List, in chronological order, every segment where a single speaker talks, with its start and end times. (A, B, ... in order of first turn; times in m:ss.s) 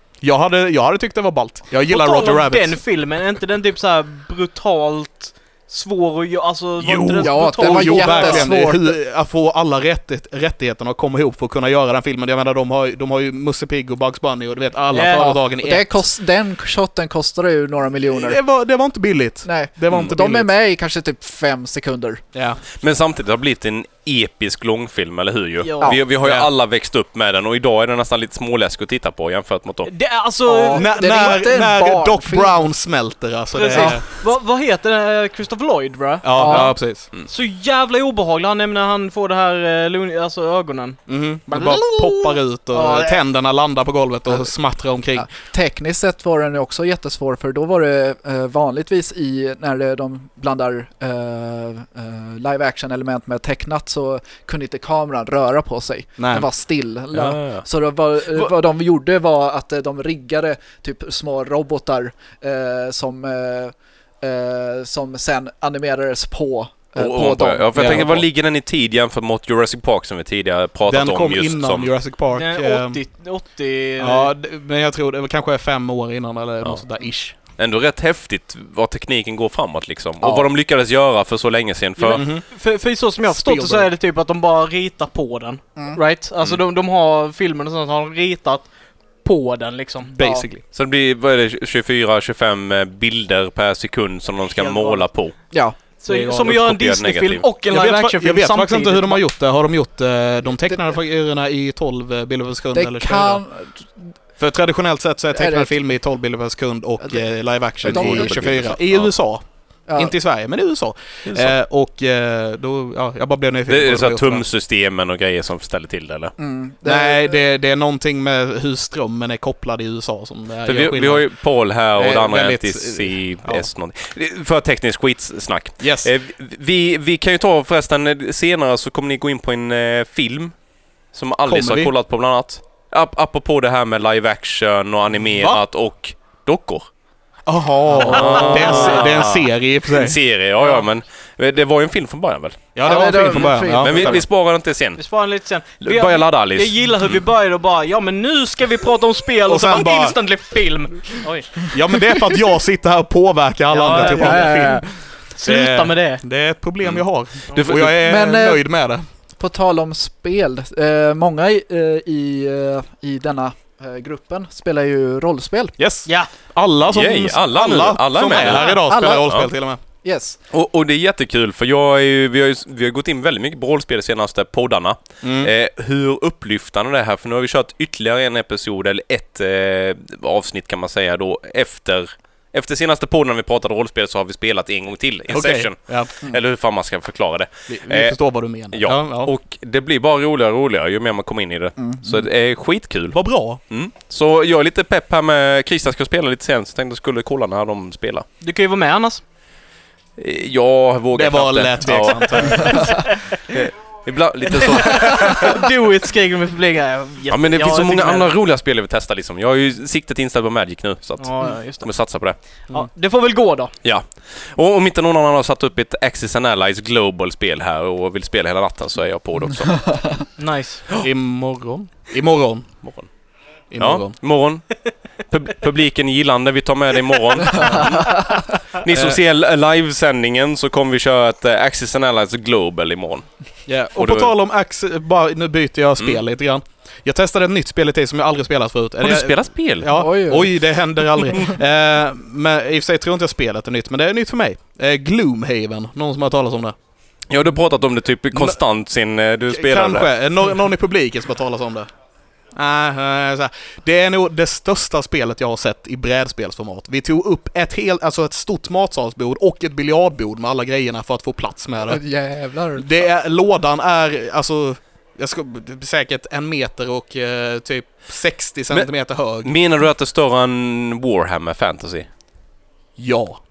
0:00.2-0:02.8 A
0:01.8-0:08.5 B
0:06.8-0:16.0 A
0:07.2-0:09.0 C
0:14.9-0:15.3 B
0:15.1-0:18.4 C
0:18.1-0:20.5 A
0:19.4-0:22.2 C
0:22.3-0:22.6 A
0:22.7-0:29.9 D
0:25.6-0:25.9 B
0:26.2-0:26.5 A
0:29.8-0:30.8 B
0:30.4-0:32.6 C
0:30.7-0:34.0 A
0:33.5-0:43.2 B
0:33.7-0:34.0 C
0:36.2-0:37.1 A
0:36.4-0:36.8 C
0:41.1-0:45.3 A
0:45.1-1:08.2 C
0:56.2-0:56.5 A
0:57.1-0:57.6 D
1:07.0-1:11.9 D
1:07.7-1:08.2 A
1:10.9-1:13.0 A
1:12.3-1:14.3 B
1:14.0-1:17.4 A
1:17.5-1:22.3 D
1:22.0-1:28.7 B
1:22.1-1:22.4 A
1:23.3-1:23.9 A
1:29.2-1:30.4 B
1:30.1-1:30.6 A
1:30.7-1:35.3 D
1:34.5-1:35.0 B
1:35.5-1:35.8 C
1:36.0-1:39.2 B
1:36.1-1:36.4 A
1:36.2-1:37.4 D
1:37.7-1:43.4 A
1:42.7-1:44.1 C
1:44.4-1:49.4 A
1:45.3-1:45.7 C
1:47.8-1:49.1 D
1:47.8-1:48.4 C
1:49.9-1:50.1 C
1:50.0-1:54.4 A
1:51.3-1:51.5 D
1:53.7-1:56.3 D
1:56.4-1:57.4 C
1:56.8-2:01.3 A
2:00.6-2:10.5 D
2:02.0-2:03.6 A
2:05.8-2:06.1 A
2:11.1-2:16.9 D
2:11.5-2:11.9 A
2:15.3-2:15.6 A
2:17.5-2:20.2 A
2:18.0-2:25.0 D
2:18.1-2:19.2 B
2:22.7-2:24.2 A
2:22.8-2:24.2 C
2:25.0-2:31.7 B
2:25.8-2:27.2 D
2:29.5-2:30.2 A
2:31.7-2:34.8 A
2:33.7-2:34.9 C
2:33.7-2:34.6 B
2:35.4-2:36.2 B
2:35.4-2:39.0 A
2:36.8-2:38.0 D
2:38.0-2:38.6 C
2:39.4-2:45.8 C
2:45.8-2:49.8 A
2:46.8-2:48.8 D
2:48.7-2:49.5 C
2:50.0-2:50.4 C
2:50.5-3:08.2 D
2:55.2-2:55.5 A
3:05.3-3:06.1 A
3:07.7-3:09.3 A
3:08.7-3:18.2 D
3:11.8-3:12.2 C
3:13.1-3:13.6 A
3:18.4-3:19.2 B
3:20.2-3:25.6 D
3:21.1-3:23.0 A
3:24.8-3:28.3 B
3:27.3-3:32.4 D
3:31.2-3:31.9 B
3:32.7-3:33.7 B
3:33.8-3:40.0 D
3:40.4-3:40.8 B
3:40.9-3:42.7 A
3:42.8-3:43.1 D
3:43.7-3:44.2 A
3:43.8-3:53.2 D
3:47.6-3:47.9 A
3:47.7-3:48.2 C
3:48.9-3:49.2 A
3:53.7-4:06.7 A
3:53.9-3:54.3 D
3:59.0-4:00.0 D
3:59.9-4:00.5 C
4:07.3-4:10.1 D
4:09.5-4:11.9 A
4:12.5-4:22.0 A
4:21.9-4:22.9 C
4:22.8-4:29.5 A
4:29.4-4:32.1 D
4:33.0-4:33.4 A